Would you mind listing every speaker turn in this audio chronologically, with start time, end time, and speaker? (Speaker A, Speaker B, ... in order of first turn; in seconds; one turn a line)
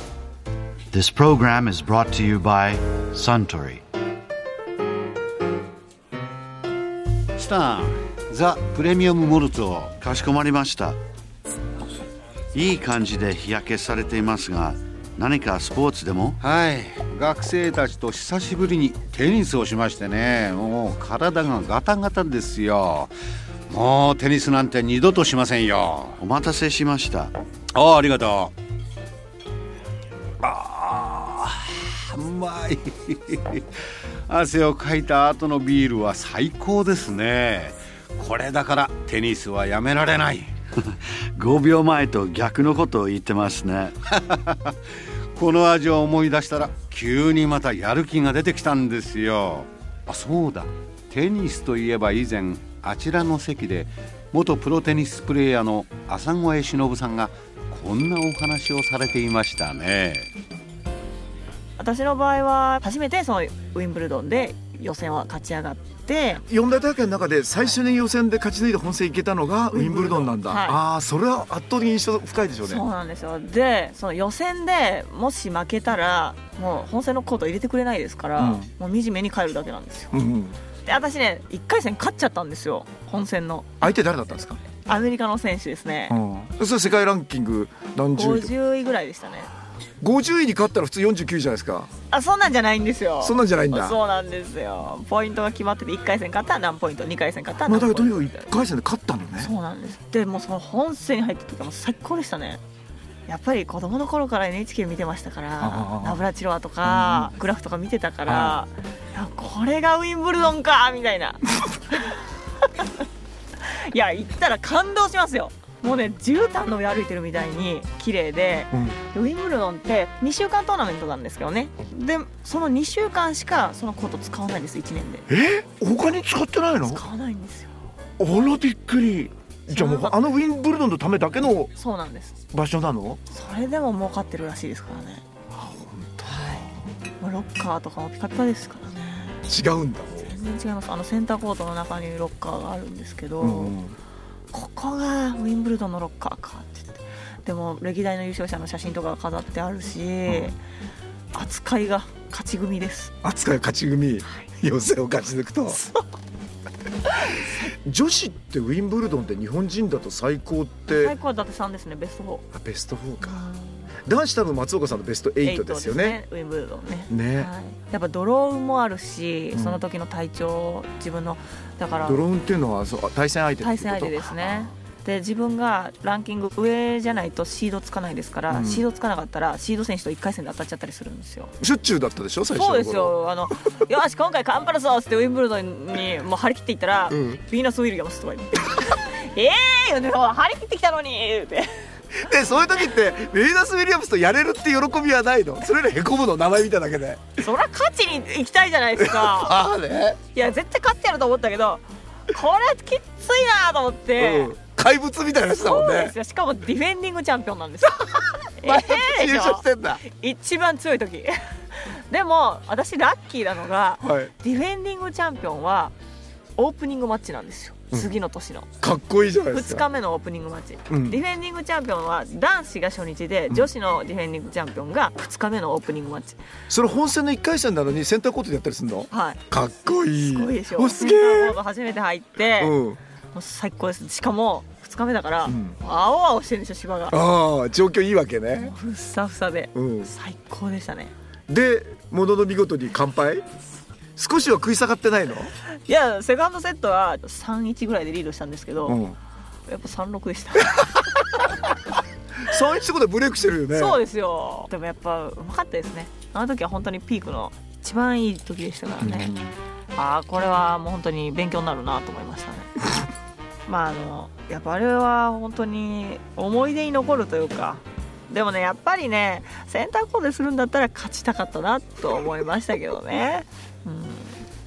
Speaker A: 0.9-3.8
Speaker B: 7.3-9.9
Speaker A: 10.0-11.0
Speaker A: 12.5-16.4
Speaker B: 16.4-23.1
Speaker B: 23.7-26.2
Speaker A: 26.2-27.3
Speaker B: 27.7-28.5
Speaker B: 30.4-40.5
Speaker A: 40.8-44.0
Speaker B: 44.1-44.7
Speaker B: 45.4-60.3
Speaker C: 61.8-66.4
Speaker D: 66.5-72.8
Speaker C: 69.7-70.8
Speaker C: 72.6-80.1
Speaker D: 78.4-78.7
Speaker D: 80.1-80.6
Speaker C: 80.8-83.7
Speaker D: 83.8-84.6
Speaker C: 84.8-86.2
Speaker D: 86.1-88.5
Speaker C: 88.2-89.5
Speaker D: 90.0-91.9
Speaker C: 92.1-98.5
Speaker D: 93.2-94.0
Speaker D: 97.7-99.5
Speaker C: 99.4-102.6
Speaker C: 103.3-113.0
Speaker D: 105.6-106.2
Speaker D: 106.8-107.3
Speaker D: 108.3-108.5
Speaker C: 113.6-125.3
Speaker D: 118.7-119.0
Speaker D: 125.3-127.0
Speaker C: 126.8-127.7
Speaker D: 128.2-131.7
Speaker C: 129.7-130.2
Speaker C: 131.7-132.3
Speaker D: 132.5-133.2
Speaker C: 133.3-135.2
Speaker D: 135.5-136.7
Speaker C: 136.2-139.4
Speaker D: 139.5-140.3
Speaker C: 140.2-143.8
Speaker D: 143.4-144.0
Speaker C: 144.5-150.6
Speaker C: 151.3-153.1
Speaker D: 153.2-155.8
Speaker C: 155.7-156.0
Speaker D: 157.3-161.1
Speaker C: 160.9-162.4
Speaker D: 162.5-163.4
Speaker C: 163.2-163.9
Speaker D: 164.1-166.2
Speaker C: 165.4-172.2
Speaker D: 167.1-167.5
Speaker D: 169.5-169.8
Speaker D: 172.0-174.7
Speaker C: 173.6-181.5
Speaker D: 178.5-178.8
Speaker D: 181.6-183.2
Speaker C: 182.5-191.7
Speaker D: 187.1-187.4
Speaker D: 192.1-197.3
Speaker C: 197.4-199.6
Speaker D: 199.0-200.2
Speaker C: 200.2-204.5
Speaker D: 204.2-206.1
Speaker C: 205.6-215.9
Speaker D: 208.6-210.0
Speaker D: 214.0-214.3
Speaker C: 216.6-218.7
Speaker D: 218.8-219.8
Speaker C: 219.5-226.4
Speaker D: 220.9-221.2
Speaker D: 226.7-231.6
Speaker C: 229.1-229.4
Speaker C: 230.1-232.8
Speaker D: 232.6-233.0
Speaker C: 233.3-237.2
Speaker D: 235.4-235.8
Speaker D: 237.1-238.7
Speaker C: 238.6-241.1
Speaker D: 239.7-240.1
Speaker D: 241.5-243.4
Speaker D: 244.2-245.5
Speaker C: 245.7-249.0
Speaker D: 248.8-249.2
Speaker C: 249.7-251.6
Speaker D: 252.4-254.0
Speaker C: 253.7-259.3
Speaker D: 259.0-259.6
Speaker C: 259.9-262.7
Speaker C: 263.6-274.4